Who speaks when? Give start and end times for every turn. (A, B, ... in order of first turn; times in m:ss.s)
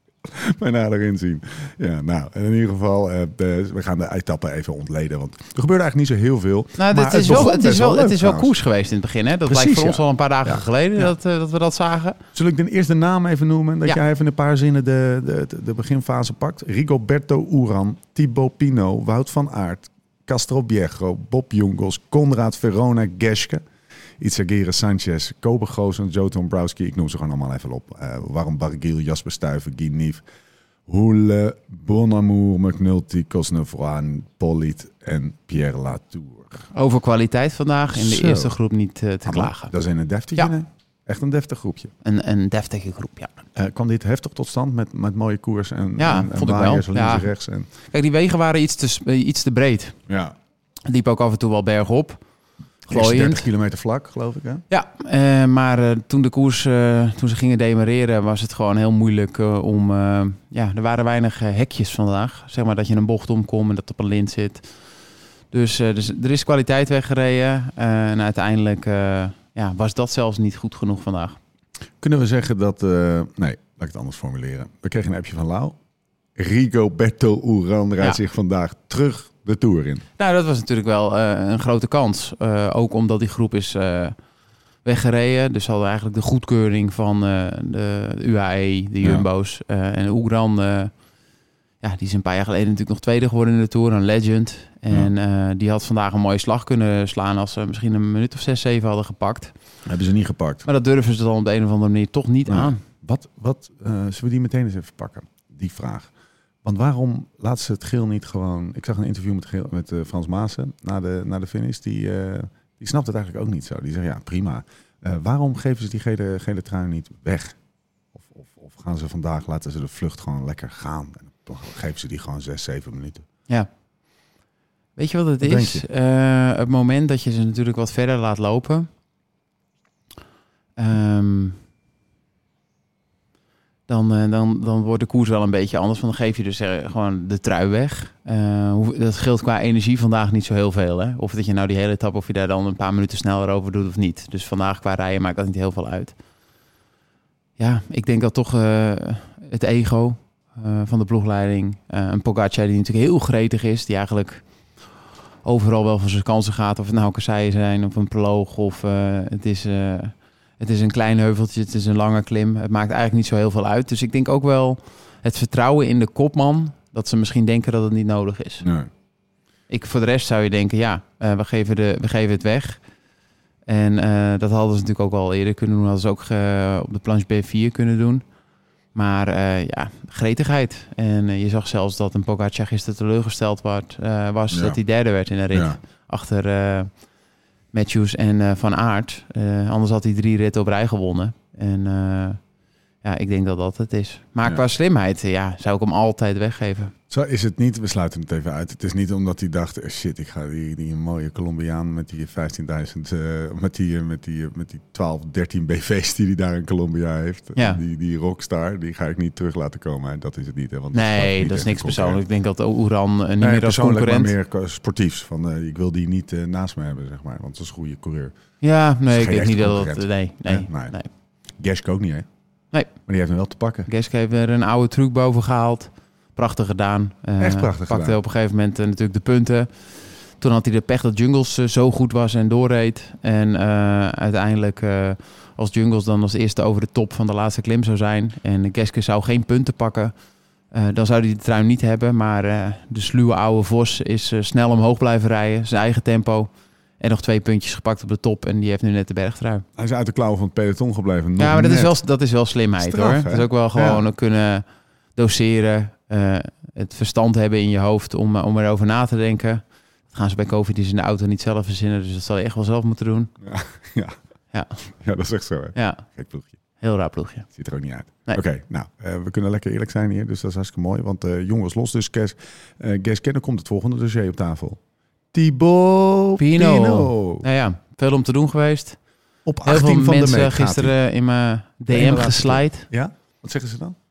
0:00.3-0:08.5 A
0:06.8-0:12.2 B
0:09.5-0:11.1 A
0:12.3-0:23.6 A
0:24.2-0:30.2 A
0:30.9-0:36.7 A
0:36.7-0:39.7 B
0:37.9-0:38.6 A
0:39.2-0:41.9 A
0:42.0-0:43.3 B
0:43.6-0:47.7 A
0:46.0-0:50.0 B
0:50.1-0:50.3 A
0:50.8-0:52.2 B
0:52.9-0:53.5 B
0:52.9-0:54.6 A
0:54.7-1:04.9 B
1:05.5-1:11.4 B
1:12.0-1:15.8 A
1:16.4-1:20.0 A
1:20.2-1:24.2 B
1:24.8-1:31.0 B
1:29.0-1:29.3 A
1:31.8-1:39.5 B
1:39.8-1:40.6 A
1:40.6-1:42.8 B
1:42.5-1:46.1 A
1:46.6-1:57.6 A
1:58.1-2:03.3 A
2:05.0-2:08.9 B
2:05.4-2:05.8 A
2:10.8-2:11.6 B
2:13.9-2:26.2 B
2:27.6-2:34.4 B
2:35.4-2:48.7 B
2:48.6-2:48.9 A
2:49.7-2:52.8 B
2:53.6-2:58.3 B
2:58.9-3:07.1 B
3:04.5-3:04.8 A
3:05.5-3:05.8 A
3:07.7-3:12.4 B
3:13.0-3:16.9 B
3:17.1-3:32.2 A
3:27.6-3:27.8 B
3:30.9-3:34.3 B
3:33.4-3:38.3 A
3:38.6-3:41.1 B
3:39.1-3:42.3 A
3:42.7-3:43.0 B
3:43.1-3:43.9 A
3:43.9-4:00.2 B
3:47.4-3:48.2 A
4:00.7-4:09.6 B
4:09.8-4:12.0 A
4:11.4-4:23.3 B
4:12.8-4:14.0 A
4:23.4-4:24.2 A
4:24.9-4:26.6 A
4:25.8-4:26.1 B
4:26.8-4:27.6 B
4:27.5-4:34.8 A
4:35.3-4:37.4 A
4:36.4-4:39.0 B
4:39.4-4:40.9 A
4:39.6-4:42.9 B
4:41.9-4:44.0 A